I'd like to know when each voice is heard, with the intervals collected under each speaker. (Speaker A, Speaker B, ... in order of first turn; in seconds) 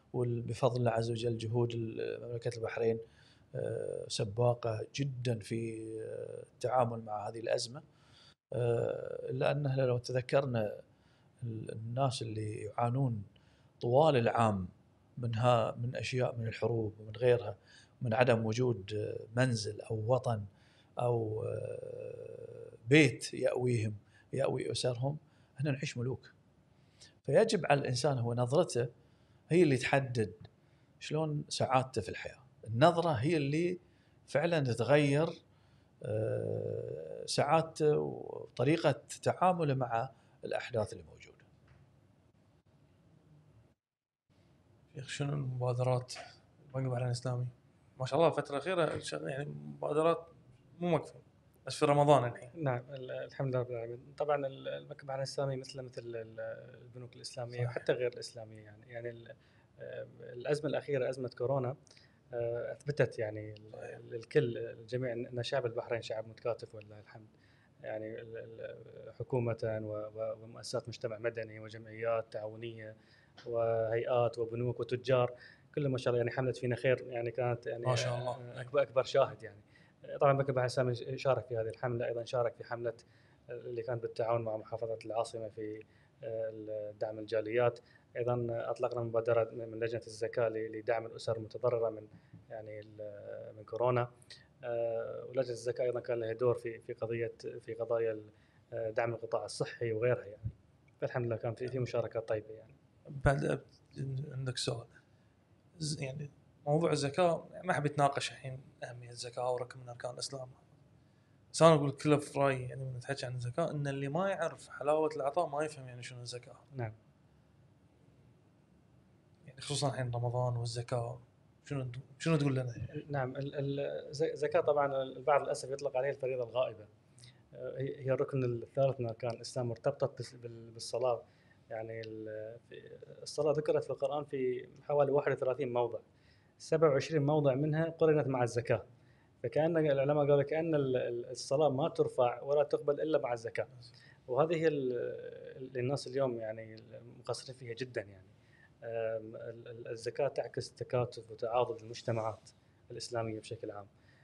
Speaker A: 0.1-3.0, 3.5-7.8, 8.5-10.8, 11.4-13.3, 13.8-20.5, 21.0-26.3, 27.2-28.9, 29.5-30.5, 31.0-35.4, 36.0-41.4
Speaker B: 44.9-52.5, 77.9-78.6, 103.1-104.9, 105.8-110.6, 111.5-116.7, 119.5-123.0
Speaker C: 52.5-61.8, 62.3-67.3, 67.8-94.1, 94.6-102.8, 122.9-126.9, 127.5-136.0, 136.6-138.8, 139.4-143.7, 144.3-148.3, 148.8-153.9